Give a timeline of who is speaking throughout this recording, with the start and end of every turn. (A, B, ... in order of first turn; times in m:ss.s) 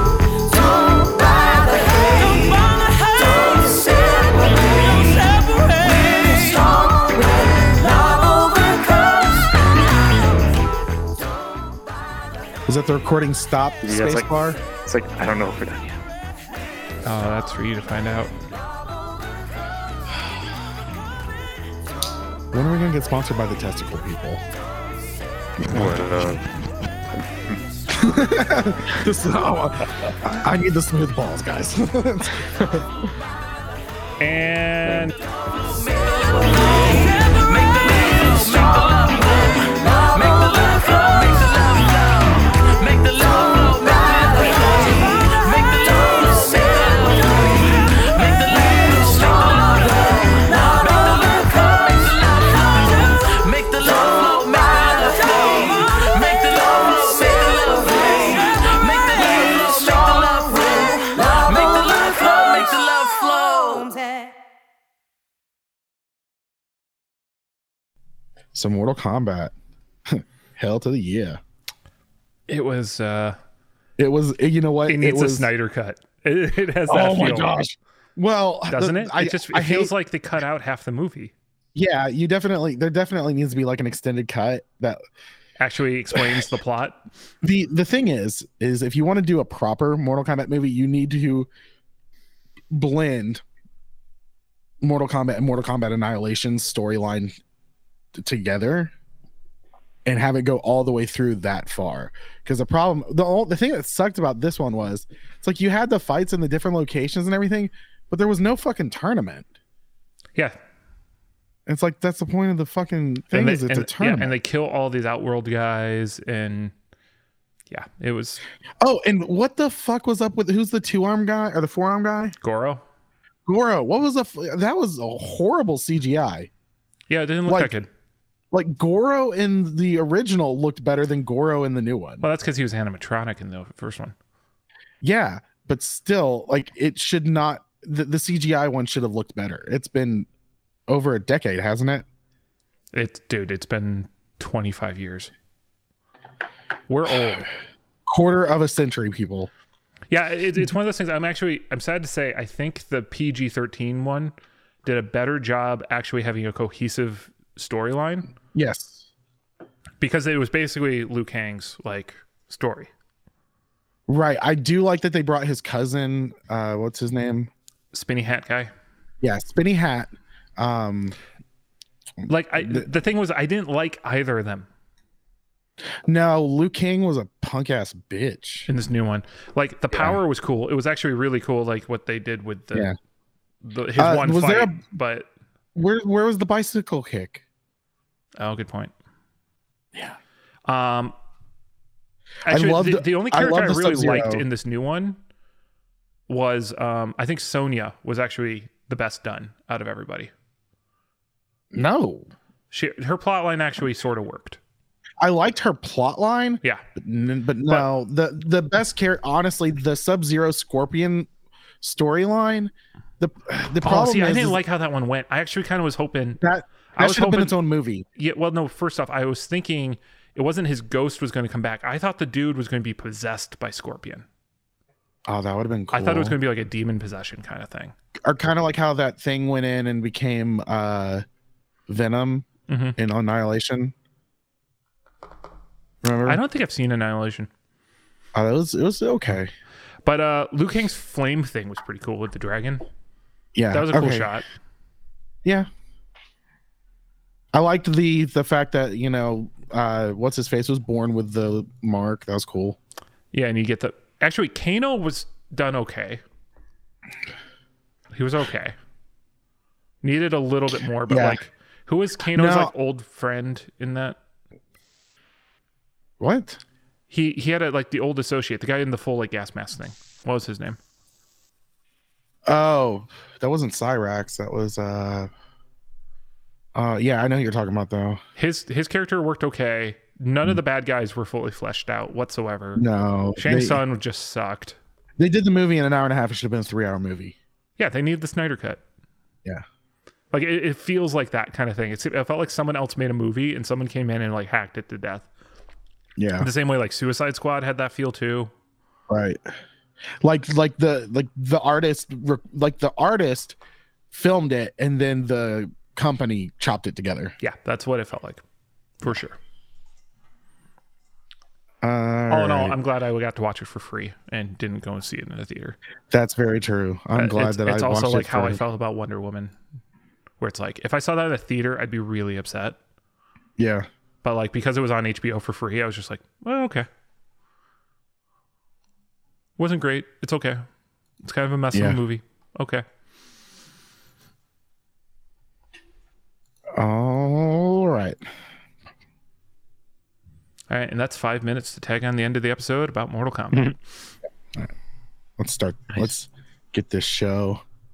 0:00.4-0:09.5 A
0:02.7-0:03.1 B
0:12.7-0:14.6 C
0:13.8-0:16.0 D
0:17.0-0:18.3 E
0:22.5-0:24.4 C
0:25.6-0:26.0 C
0:25.7-0:26.5 D
0:27.9-0:32.5 C
0:32.5-0:32.8 D
0:34.2-0:35.1 E
0:35.6-1:03.9 B
1:08.5-1:09.5 C
1:10.1-1:11.4 C
1:12.5-1:13.4 E
1:14.0-1:15.5 C
1:14.9-1:17.6 E
1:16.9-1:19.9 C
1:18.7-1:21.3 E
1:21.8-1:25.0 C
1:25.6-1:27.0 E
1:27.4-1:31.5 C
1:32.7-1:33.4 C
1:34.8-1:37.3 C
1:38.2-1:38.9 C
1:40.1-1:49.5 C
1:51.7-1:54.3 C
1:53.3-1:56.7 E
1:57.7-1:58.4 E
1:58.8-2:02.4 C
2:02.4-2:02.8 E
2:03.5-2:06.5 C
2:07.1-2:07.9 E
2:07.5-2:07.7 C
2:08.5-2:12.3 C
2:12.2-2:14.2 E
2:15.0-2:20.3 C
2:20.9-2:22.0 C
2:22.9-2:25.3 E
2:26.9-2:27.5 E
2:28.1-2:29.5 C
2:30.1-2:34.3 E
2:34.8-2:38.3 E
2:38.5-2:39.0 C
2:40.0-2:42.9 E
2:44.1-2:47.5 C
2:47.9-2:48.7 E
2:49.2-2:51.2 C
2:52.3-2:54.7 E
2:52.6-2:52.8 C
2:56.1-2:58.7 C
2:58.7-3:02.9 E
2:59.9-3:00.2 C
3:03.6-3:05.3 E
3:04.0-3:04.8 C
3:05.8-3:07.4 C
3:08.4-3:08.9 E
3:10.7-3:11.1 E
3:12.4-3:14.4 C
3:12.5-3:15.2 E
3:16.3-3:20.3 E
3:21.7-3:22.3 C
3:22.7-3:24.6 E
3:25.2-3:31.3 C
3:31.8-3:34.6 C
3:33.8-3:36.4 E
3:36.4-3:38.0 C
3:37.0-3:37.6 E
3:38.2-3:44.3 E
3:45.3-3:46.4 C
3:45.9-3:47.9 E
3:48.2-3:51.2 C
3:51.9-3:53.9 C
3:52.7-3:53.0 E
3:56.0-3:56.4 C
3:56.3-3:57.5 E
3:58.4-3:59.5 C
4:00.0-4:02.9 E
4:03.6-4:04.3 C
4:03.7-4:04.5 E
4:07.5-4:12.8 C
4:13.3-4:16.2 E
4:18.1-4:18.8 E
4:20.0-4:24.2 E
4:21.1-4:21.4 C
4:22.4-4:22.7 C
4:26.2-4:26.6 C
4:27.1-4:30.8 E
4:32.5-4:35.3 C
4:36.8-4:38.2 C
4:38.4-4:42.8 E
4:42.8-4:43.8 C
4:43.4-4:44.8 E
4:45.2-4:47.4 C
4:47.8-4:48.8 E
4:50.3-4:55.3 E
4:56.2-4:56.5 C
4:56.4-4:58.5 E
4:59.1-4:59.4 C
5:00.2-5:03.6 C
5:04.1-5:07.3 C
5:07.4-5:08.4 E
5:09.0-5:09.4 E
5:11.8-5:12.8 C
5:12.3-5:15.8 E
5:16.1-5:18.6 C
5:17.2-5:19.5 E
5:20.4-5:22.8 E
5:23.6-5:23.9 C
5:24.2-5:26.9 E
5:29.6-5:30.6 E
5:31.2-5:32.8 E
5:31.7-5:32.0 C
5:36.8-5:38.2 C
5:40.7-5:43.8 E
5:45.4-5:47.6 C